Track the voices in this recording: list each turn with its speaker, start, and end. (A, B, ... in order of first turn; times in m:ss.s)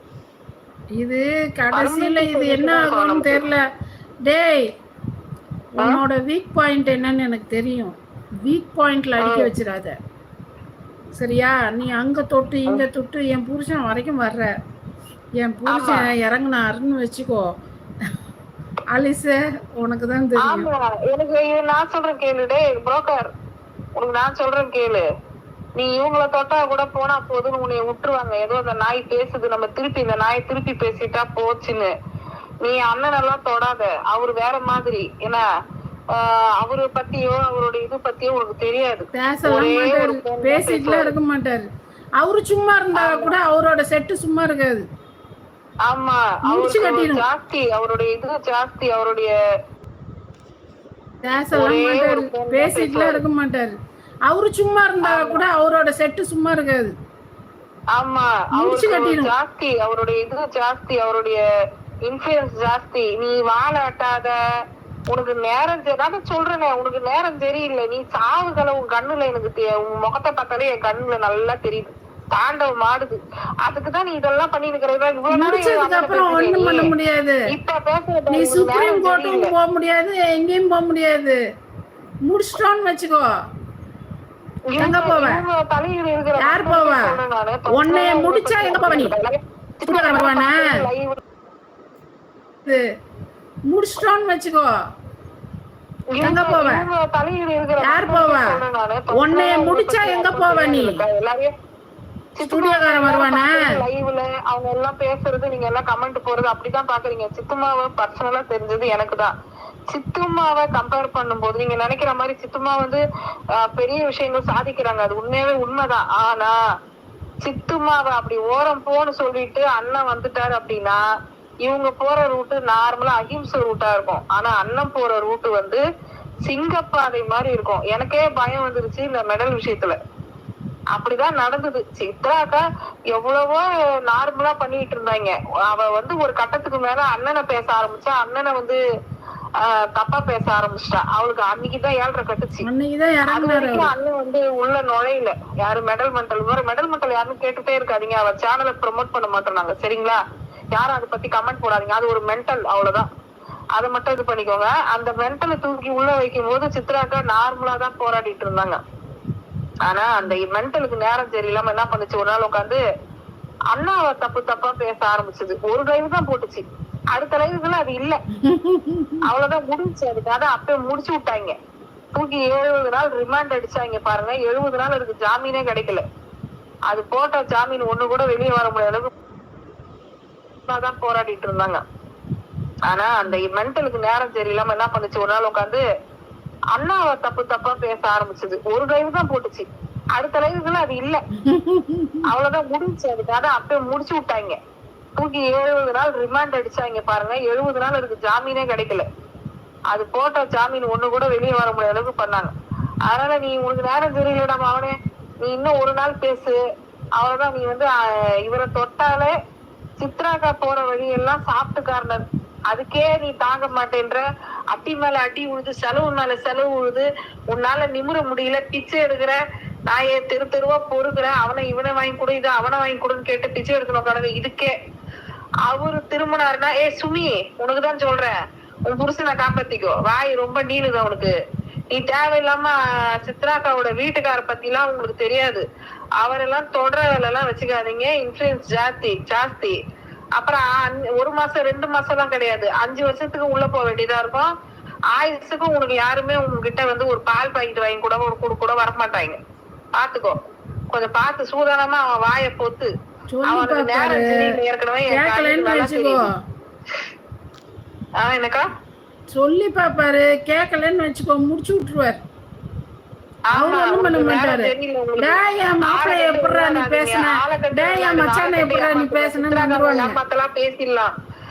0:01.0-0:03.6 A
0:01.7-0:03.5 B
0:04.3-0:04.6 A
0:05.8-0:07.9 A
0:08.4-0:10.0 A
0:09.2-0:09.5 B
0:11.2-0:14.5 A
0:15.4-0:17.4 A
0:15.7-0:16.1 B
0:18.9-0:20.7 A
0:20.4-0:23.3 B
0:24.0-0:25.1 B
0:25.8-0:31.9 B
0:32.6-0:35.4 B
0:36.1-0:41.2 B
0:39.1-0:41.6 A
0:42.2-0:44.8 A
0:43.0-0:43.4 B
0:45.9-0:49.3 B
0:46.5-0:47.2 A
0:51.2-0:53.7 A
0:51.5-0:53.2 B
0:54.3-0:56.9 A
0:55.0-0:55.4 B
0:57.9-1:01.4 B
0:58.6-0:59.3 A
1:02.1-1:04.4 B
1:05.1-1:16.9 B
1:15.3-1:17.4 A
1:17.5-1:19.5 B
1:18.3-1:21.4 A
1:22.3-1:23.2 A
1:24.7-1:31.2 B
1:24.8-1:25.4 A
1:26.4-1:27.2 A
1:27.7-1:29.2 A
1:29.8-1:30.8 A
1:33.7-1:34.7 A
1:36.1-1:41.5 B
1:36.2-1:36.9 A
1:37.8-1:38.6 A
1:39.1-1:41.0 A
1:42.4-1:49.3 B
1:42.4-1:43.8 A
1:49.9-1:53.0 B
1:53.6-1:56.6 B
1:57.4-2:01.0 B
2:01.6-2:05.8 B
2:06.4-2:10.0 B
2:10.9-2:18.8 B
2:19.6-2:22.7 B
2:22.6-2:23.9 A
2:23.3-2:30.2 B
2:30.7-2:33.1 B
2:33.8-2:38.8 B
2:39.8-2:42.8 B
2:43.7-2:48.2 B
2:48.4-2:49.2 A
2:49.2-2:51.6 B
2:52.1-2:56.0 B
2:56.9-2:59.1 B
3:00.7-3:01.8 B
3:02.9-3:05.8 B
3:06.7-3:11.2 B
3:11.4-3:12.3 A
3:12.3-3:14.6 B
3:15.2-3:19.1 B
3:19.9-3:22.5 B
3:23.1-3:26.6 B
3:27.2-3:29.3 B
3:30.0-3:39.4 B
3:39.9-3:44.7 B
3:45.7-3:48.3 B
3:48.9-3:51.3 B
3:51.9-3:55.6 B
3:56.2-3:59.8 B
4:00.4-4:04.5 B
4:05.1-4:09.4 B
4:10.0-4:10.4 B
4:10.9-4:12.9 B
4:13.3-4:14.5 A
4:13.5-4:16.2 B
4:15.1-4:16.4 A
4:18.2-4:18.6 B
4:19.3-4:22.2 A
4:23.5-4:31.1 B
4:23.5-4:30.2 A